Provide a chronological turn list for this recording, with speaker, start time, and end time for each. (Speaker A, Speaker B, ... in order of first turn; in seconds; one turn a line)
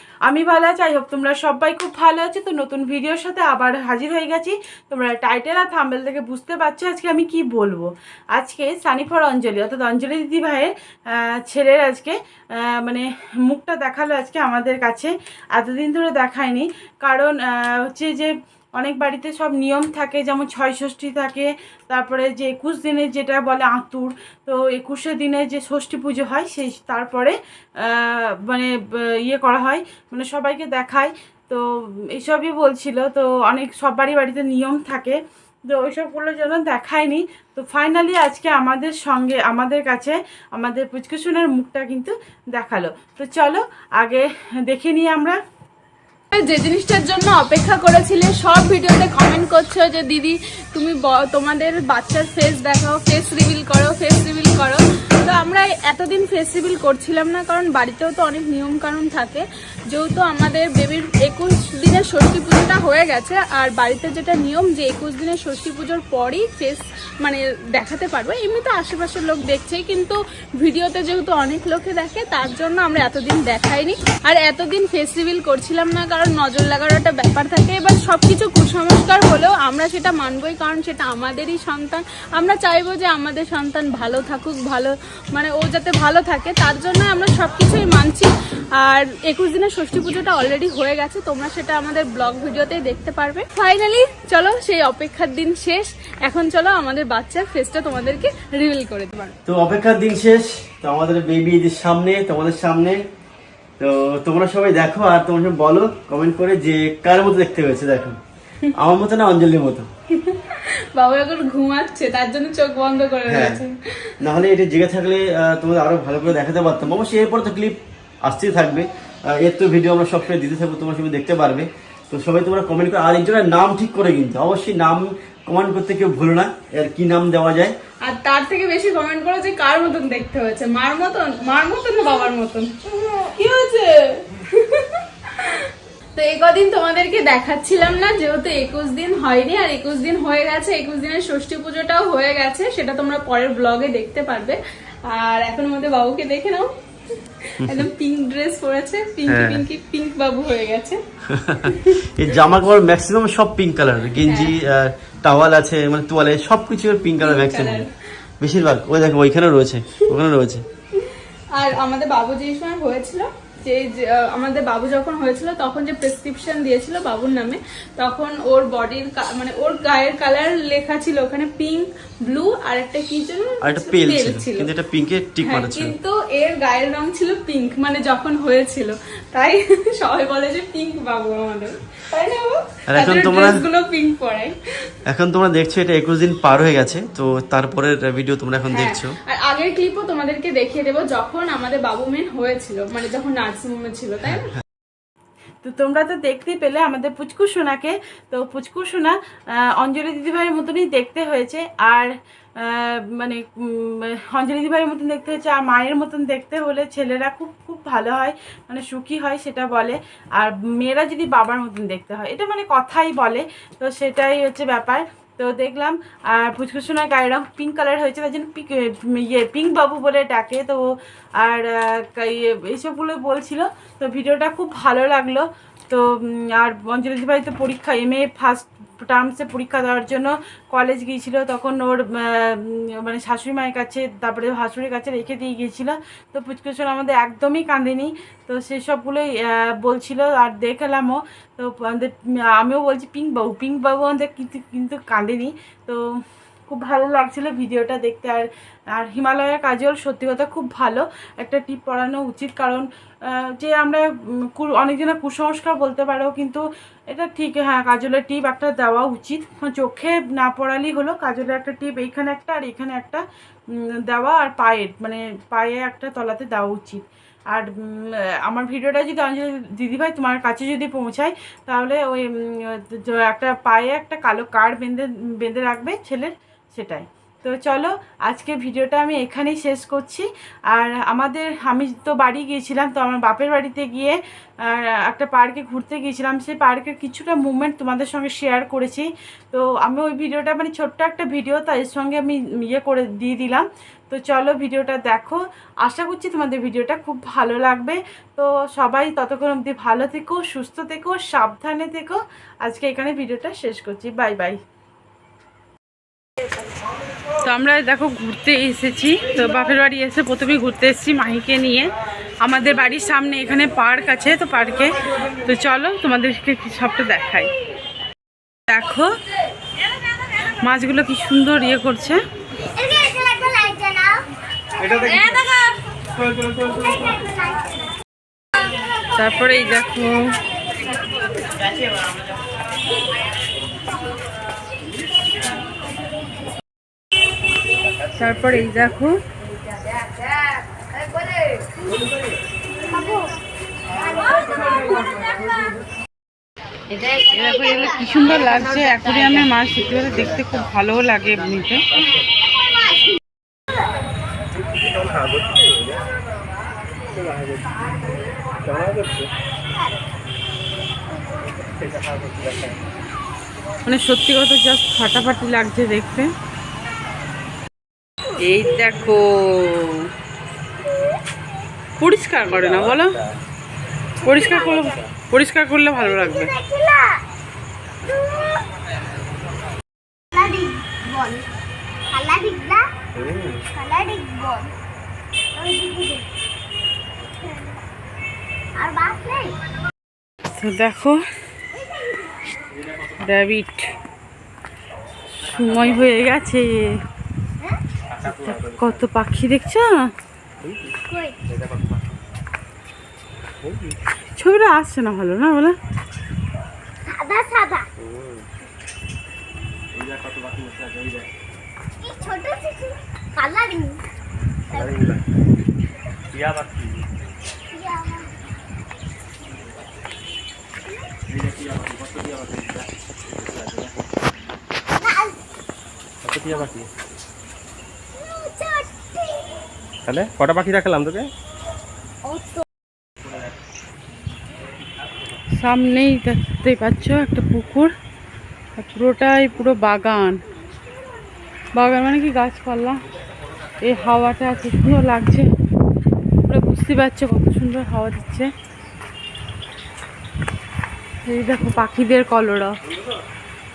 Speaker A: 0.2-45.4
Speaker B: 46.3-99.4
Speaker C: 99.5-103.0
Speaker C: 103.8-108.2
Speaker C: 108.8-109.9
Speaker B: 110.1-114.1
Speaker C: 113.3-113.6
Speaker C: 114.2-127.8
Speaker B: 128.0-146.7
Speaker B: 147.4-151.0
Speaker C: 149.3-149.6
Speaker C: 151.3-157.8
Speaker B: 151.7-152.1
Speaker B: 154.2-154.6
Speaker B: 157.2-157.9
Speaker C: 158.4-160.7
Speaker B: 160.9-174.7
Speaker C: 173.6-176.0
Speaker B: 175.4-184.6
Speaker C: 182.9-183.6
Speaker C: 185.1-189.2
Speaker B: 188.7-194.6
Speaker A: 195.6-199.2
Speaker A: 199.8-246.0
Speaker A: 246.7-263.2
Speaker A: 263.7-304.6
Speaker A: 307.4-311.9
Speaker A: 312.4-317.5
Speaker A: 318.7-319.1
Speaker A: 320.6-322.2
Speaker D: 322.7-324.2
Speaker D: 324.8-325.5
Speaker D: 327.1-327.8
Speaker A: 329.1-330.3
Speaker A: 338.2-339.2
Speaker D: 342.9-343.3
Speaker D: 344.0-345.1
Speaker A: 347.1-351.9
Speaker D: 352.7-352.9
Speaker E: 355.1-355.6
Speaker E: 357.2-357.6
Speaker E: 358.7-359.3
Speaker E: 361.6-362.8
Speaker A: 363.9-366.3
Speaker A: 368.4-370.1
Speaker A: 372.0-373.2
Speaker E: 372.4-373.1
Speaker A: 374.2-376.6
Speaker D: 374.3-374.8
Speaker D: 376.0-377.2
Speaker D: 378.1-378.7
Speaker D: 380.3-381.5
Speaker D: 382.1-382.9
Speaker E: 383.2-383.7
Speaker D: 383.7-384.7
Speaker D: 385.6-386.3
Speaker D: 388.8-389.6
Speaker A: 390.6-391.2
Speaker A: 393.2-393.9
Speaker A: 395.4-396.9
Speaker E: 395.6-396.0
Speaker E: 398.1-399.0
Speaker A: 398.2-400.1
Speaker E: 400.6-402.0
Speaker D: 401.1-401.4
Speaker E: 403.6-404.0
Speaker A: 404.4-405.8
Speaker D: 407.1-407.9
Speaker E: 408.0-408.5
Speaker E: 409.9-411.3
Speaker D: 412.0-414.0
Speaker E: 414.7-415.2
Speaker D: 414.7-415.0
Speaker E: 416.3-417.1
Speaker D: 417.7-418.3
Speaker E: 421.3-424.0
Speaker D: 424.9-425.4
Speaker E: 426.2-426.9
Speaker D: 428.1-429.5
Speaker E: 430.1-431.3
Speaker D: 432.2-432.6
Speaker A: 435.6-437.9
Speaker A: 438.8-440.4
Speaker A: 441.8-443.0
Speaker A: 443.8-445.5
Speaker A: 446.5-448.5
Speaker A: 451.3-452.8